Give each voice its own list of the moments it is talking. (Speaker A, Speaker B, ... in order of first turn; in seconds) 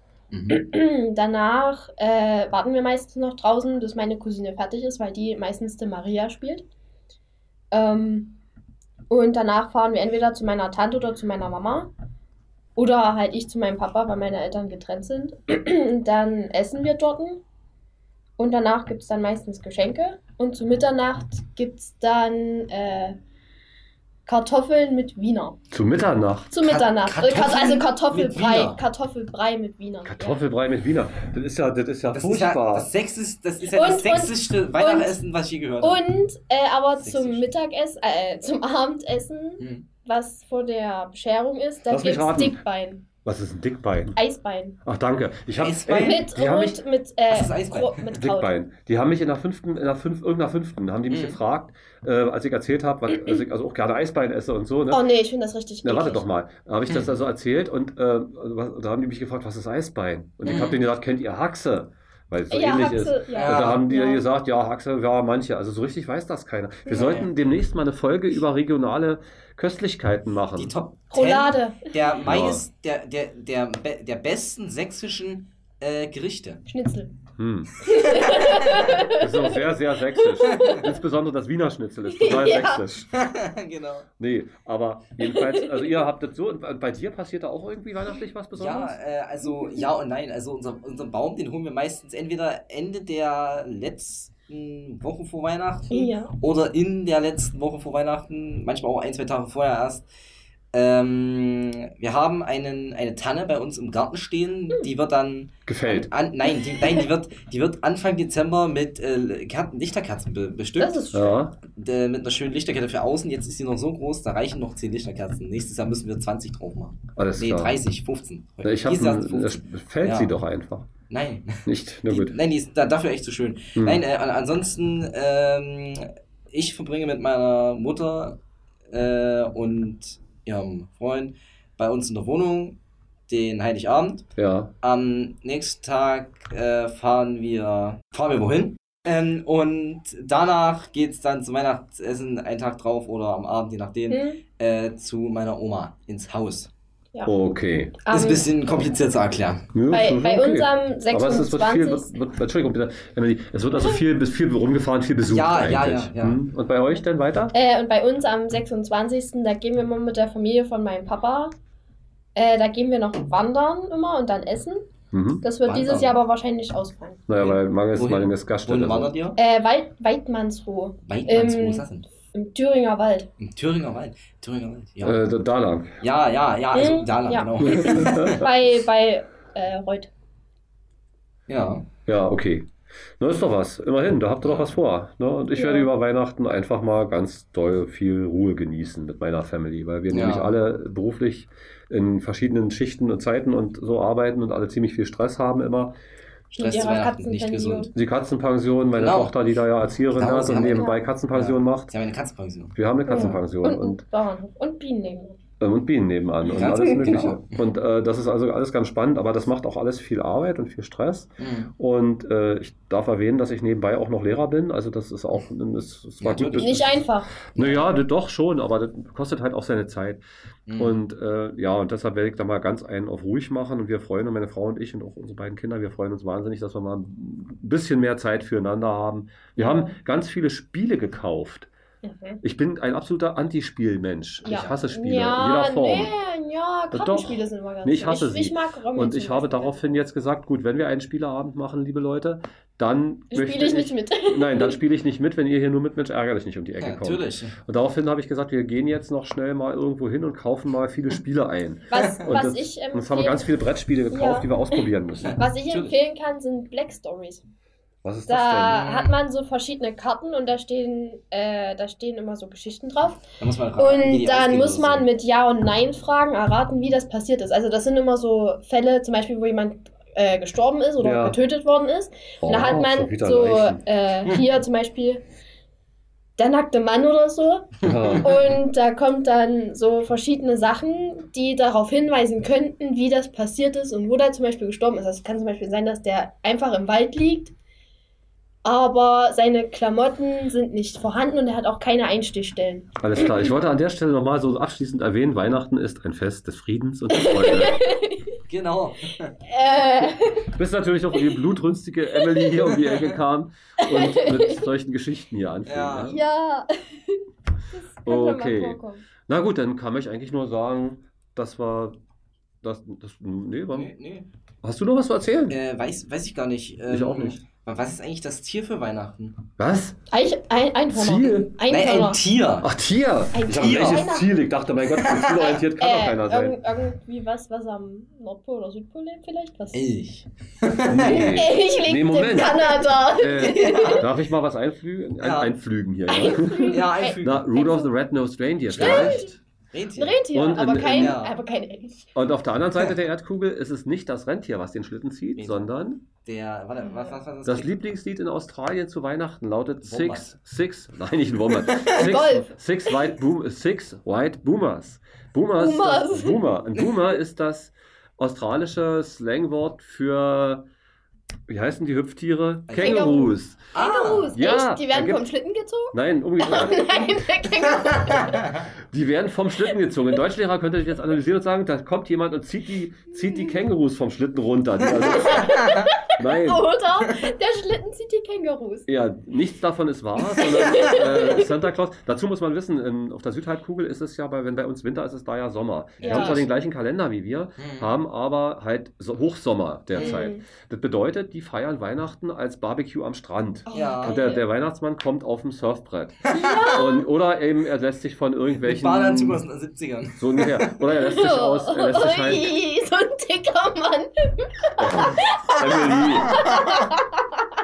Speaker A: 0.3-0.6, 26.6-28.8, 32.1-36.0, 37.0-37.5, 39.6-39.9, 45.6-46.2, 47.3-48.0, 51.1-51.4, 56.9-57.1, 60.4-60.8, 63.3-63.9, 66.9-67.3, 70.5-76.6, 77.9-78.6, 83.1-84.1, 88.5-100.0, 100.7-111.0, 111.6-120.3, 121.1-128.4, 128.9-132.8, 133.3-134.2, 134.8-146.7, 148.1-149.7, 155.2-156.4, 165.7-166.2, 167.4-169.4, 171.0-172.1, 173.4-175.2, 176.0-178.4, 181.5-181.9, 184.4-184.8, 190.1-190.6, 196.6-197.9, 199.0-199.3, 200.1-203.4, 206.5-207.6, 211.4-211.7, 216.2-216.9, 217.6-217.9, 220.7-221.0, 234.5-234.8, 246.8-247.6, 255.7-255.9, 263.4-265.1, 298.5-299.4, 305.6-306.2, 313.7-314.3, 315.5-319.4, 321.7-322.7, 323.5-324.0, 324.9-325.4, 329.7-331.4, 333.4-334.1, 335.2-335.6, 336.7-337.5, 338.7-340.2, 340.8-341.4, 345.4-345.7, 346.2-347.7, 349.8-350.3, 362.7-363.1, 363.7-364.4, 366.4-367.0, 386.0-386.5, 387.6-387.9, 389.9-390.2, 393.7-394.2, 398.6-400.7
Speaker B: 0.5-6.6, 7.7-8.4, 9.1-11.9, 12.8-17.4, 18.4-23.2, 24.2-25.6, 26.5-30.4, 33.6-35.2, 35.8-43.0, 44.1-44.8, 46.0-48.5, 54.9-56.3, 62.5-64.2, 71.1-71.9, 76.7-77.1, 77.8-80.9, 82.1-82.9, 85.2-86.0, 89.4-89.8, 95.9-96.3, 110.8-111.4, 144.1-144.4, 148.0-148.9, 149.9-152.1, 153.8-154.0, 157.5-161.5, 162.4-164.9, 165.4-167.2, 169.4-173.3, 176.7-180.1, 185.5-185.9, 196.5-197.9, 203.1-205.4, 206.5-207.2, 216.5-217.3, 229.6-229.9, 232.0-232.4, 234.4-240.1, 243.3-244.8, 251.9-253.5, 254.1-257.4, 258.3-263.2, 263.8-275.2, 276.4-287.5, 288.6-292.9, 297.1-298.2, 299.5-300.5, 301.1-301.5, 302.1-302.7, 303.8-304.7, 306.1-309.1, 320.1-322.2, 323.3-324.3, 325.3-329.8, 331.0-334.0, 336.1-337.9, 338.8-339.4, 340.0-342.1, 346.8-347.2, 351.9-353.0, 355.6-356.5, 362.8-368.6, 373.2-373.5, 375.1-378.9, 380.4-381.5, 386.0-386.5, 390.0-390.4, 393.6-394.4, 396.3-397.1, 400.9-407.4
Speaker C: 25.7-26.5, 30.0-32.9, 41.9-42.6, 43.2-44.2, 44.8-46.8, 48.1-55.1, 55.8-70.7, 72.2-72.6, 77.4-77.7, 79.2-83.1, 84.2-89.0, 105.7-106.1, 111.1-111.6, 117.2-117.8, 118.6-120.9, 121.7-122.4, 123.8-124.0, 134.4-134.7, 147.2-148.0, 149.7-157.5, 165.1-165.4, 167.3-169.1, 175.0-176.0, 177.6-178.3, 182.1-182.7, 183.2-195.9, 197.9-201.9, 202.8-204.0, 205.6-220.2, 220.8-231.7, 232.4-236.1, 236.9-255.4, 258.0-259.1, 271.0-271.4, 272.4-273.8, 277.8-278.5, 293.0-297.8, 300.0-306.2, 308.1-312.0, 312.6-313.9, 314.6-315.6, 316.9-317.4, 319.6-320.0, 320.9-321.5, 322.6-326.6, 330.9-339.3, 340.3-341.2, 342.1-346.0, 347.5-360.6, 361.5-363.6, 364.3-365.2, 365.9-366.8, 368.9-375.6, 376.1-376.6, 378.9-399.4, 400.2-402.5, 404.8-406.4